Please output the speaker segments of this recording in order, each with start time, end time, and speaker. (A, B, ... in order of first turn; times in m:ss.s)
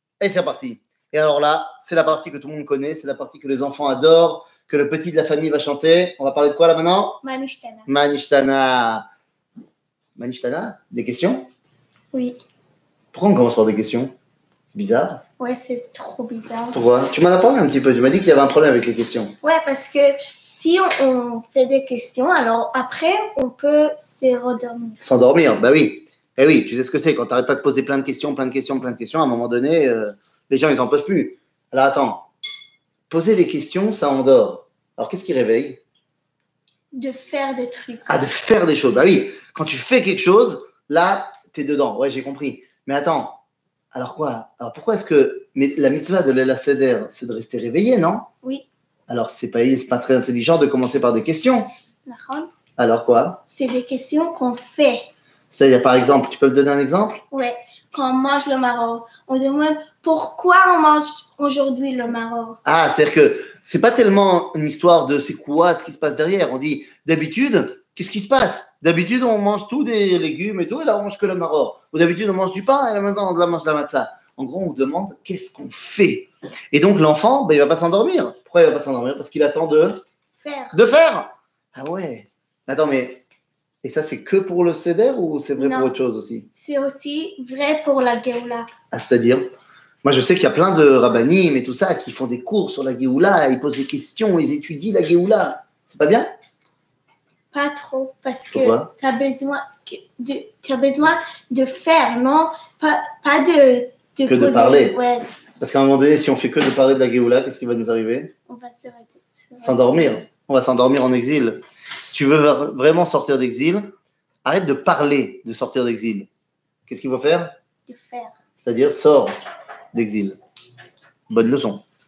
0:00.2-0:07.2 A
0:07.2-0:07.9 B
0:07.9-0:09.1 A
0:10.2-0:11.5 A
0:12.1-0:12.4 B
0:13.1-0:14.1 A
0:14.7-0:15.2 A
0:15.4-0:16.8 B
0:16.7-0:19.4 A
0:19.4-0:25.0 B
0:25.0-0:32.3 A
0:33.1-0:35.8 A
0:36.9-0:38.2 B
0:38.1-0:43.4 A
0:43.9-0:48.3 A
0:49.1-0:51.7 A
0:52.1-0:52.5 B
0:52.8-0:53.4 A
0:53.5-0:55.1 B
0:55.5-0:57.2 A
0:57.3-1:02.6 B
1:02.6-1:20.0 A
1:20.4-1:20.8 B
1:20.7-1:23.2 A
1:23.8-1:26.5 A
1:25.6-1:25.9 B
1:26.6-1:28.7 B
1:28.9-1:29.4 A
1:30.0-1:36.3 A
1:37.5-1:45.3 B
1:38.5-1:38.9 A
1:44.3-1:45.0 A
1:45.6-1:48.3 A
1:48.5-1:50.1 B
1:49.6-1:53.9 A
1:54.4-1:56.3 A
1:56.9-1:57.5 A
1:57.9-1:58.4 B
1:58.6-1:59.3 A
1:59.9-2:00.4 A
2:01.3-2:01.8 A